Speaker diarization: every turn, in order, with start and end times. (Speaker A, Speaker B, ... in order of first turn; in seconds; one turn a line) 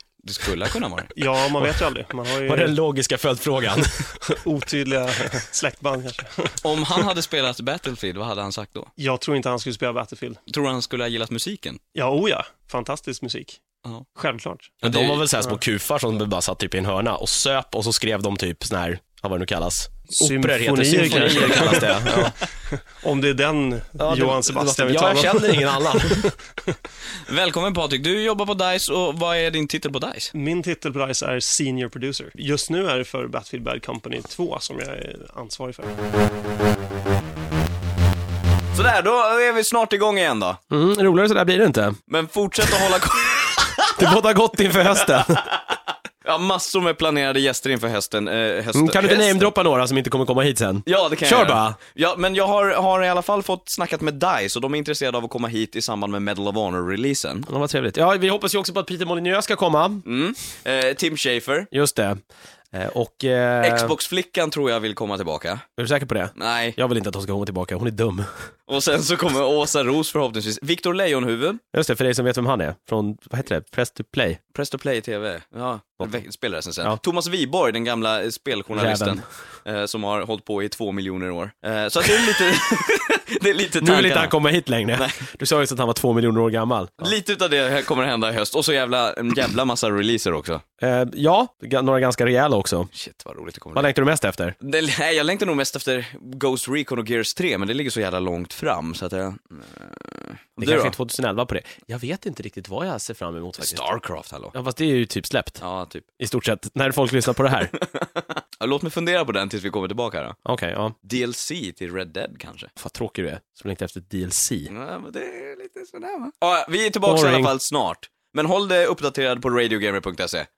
Speaker A: 0.2-1.1
Speaker B: 1.1-2.8
Speaker C: 2.4-3.9
Speaker B: 4.4-7.0
Speaker A: 6.6-8.9
Speaker B: 9.0-10.4
Speaker A: 10.5-11.8
Speaker B: 11.9-13.6
Speaker B: 14.2-14.8
Speaker C: 14.8-22.3
Speaker A: 14.8-15.3
Speaker B: 20.2-22.3
Speaker A: 21.0-22.0
Speaker B: 22.9-26.3
Speaker C: 24.0-26.2
Speaker A: 27.3-30.3
Speaker B: 30.4-35.9
Speaker A: 38.7-40.6
Speaker C: 40.7-42.0
Speaker A: 42.1-43.7
Speaker C: 44.0-45.5
Speaker A: 46.2-49.5
Speaker C: 48.7-51.8
Speaker A: 50.9-57.5
Speaker C: 57.5-60.0
Speaker A: 60.0-61.7
Speaker C: 61.7-62.2
Speaker C: 62.7-64.0
Speaker A: 63.6-65.6
Speaker C: 65.8-68.3
Speaker A: 66.4-66.8
Speaker A: 68.7-71.6
Speaker C: 71.7-74.4
Speaker A: 74.5-84.4
Speaker C: 78.7-79.2
Speaker C: 83.8-87.1
Speaker A: 84.9-85.2
Speaker A: 87.0-90.6
Speaker C: 90.8-92.9
Speaker A: 92.9-93.9
Speaker C: 93.8-94.5
Speaker A: 94.6-101.0
Speaker C: 100.6-103.9
Speaker A: 103.6-104.5
Speaker C: 104.5-105.6
Speaker A: 105.6-106.0
Speaker C: 106.2-107.7
Speaker A: 107.8-110.4
Speaker C: 110.5-111.0
Speaker A: 111.0-112.7
Speaker C: 112.8-114.7
Speaker A: 114.7-120.5
Speaker C: 117.0-117.5